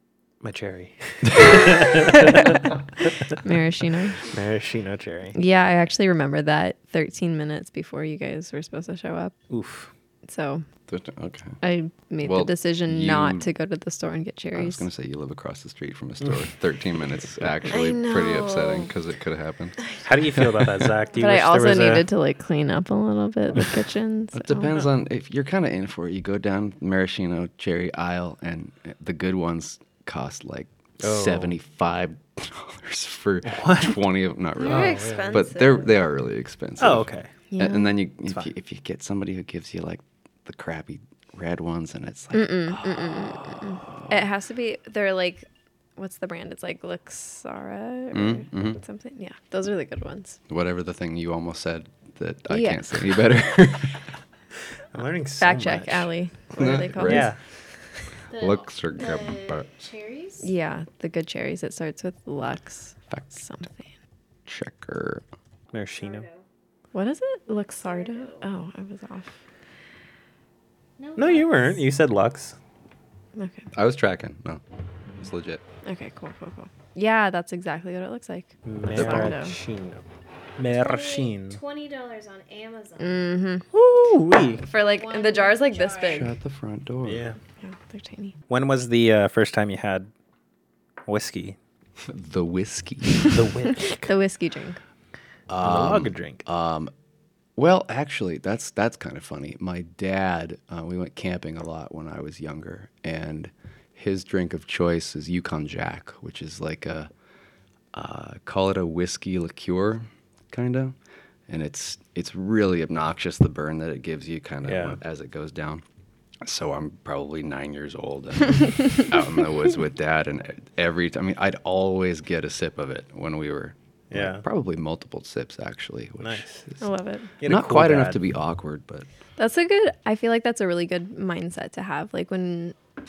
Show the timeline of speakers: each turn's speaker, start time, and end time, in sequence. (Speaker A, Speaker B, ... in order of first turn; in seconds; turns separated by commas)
Speaker A: 0.4-3.4, Speaker B: 3.4-4.3, Speaker A: 4.2-5.3, Speaker B: 5.3-9.4, Speaker A: 9.5-9.9, Speaker B: 10.3-10.7, Speaker C: 10.9-11.6, Speaker B: 11.6-14.8, Speaker C: 12.2-13.5, Speaker C: 14.6-19.8, Speaker B: 17.7-18.9, Speaker A: 20.0-22.1, Speaker C: 20.4-20.9, Speaker B: 21.1-24.7, Speaker C: 24.3-44.3, Speaker A: 31.0-31.6, Speaker A: 33.4-34.0, Speaker B: 34.6-35.9, Speaker A: 34.6-35.3, Speaker A: 36.8-37.3, Speaker B: 37.5-38.0, Speaker B: 42.3-50.4, Speaker C: 48.1-48.8, Speaker C: 50.5-54.1, Speaker B: 52.5-53.1, Speaker A: 54.9-56.1, Speaker B: 55.4-57.4, Speaker C: 56.5-57.3, Speaker A: 57.0-57.4, Speaker D: 58.3-60.5, Speaker C: 58.3-59.7, Speaker B: 60.4-63.9, Speaker C: 64.5-65.2, Speaker A: 65.7-66.3, Speaker D: 66.0-66.5, Speaker B: 66.9-69.3, Speaker D: 67.8-68.4, Speaker D: 71.0-71.8, Speaker A: 71.2-72.6, Speaker B: 73.4-73.7, Speaker C: 73.7-74.6, Speaker C: 75.2-75.6, Speaker B: 75.8-79.5, Speaker A: 78.7-80.0, Speaker C: 78.9-79.3, Speaker A: 80.6-81.6, Speaker D: 80.8-83.3, Speaker B: 83.0-83.6, Speaker A: 83.7-84.7, Speaker B: 84.7-86.3, Speaker D: 84.9-86.3, Speaker C: 86.0-87.2, Speaker A: 87.0-87.4, Speaker B: 87.6-88.3, Speaker A: 88.5-90.1, Speaker A: 91.1-91.6, Speaker C: 92.1-93.4, Speaker A: 93.3-94.1, Speaker B: 94.1-94.8, Speaker C: 95.5-96.9, Speaker A: 95.6-96.4, Speaker C: 97.6-107.1, Speaker C: 107.9-111.0, Speaker C: 111.5-115.8, Speaker A: 114.6-115.0, Speaker C: 116.4-126.8, Speaker A: 124.1-124.4, Speaker A: 126.2-126.6, Speaker B: 126.8-127.3, Speaker A: 127.4-128.2, Speaker C: 127.4-129.1, Speaker B: 129.4-132.8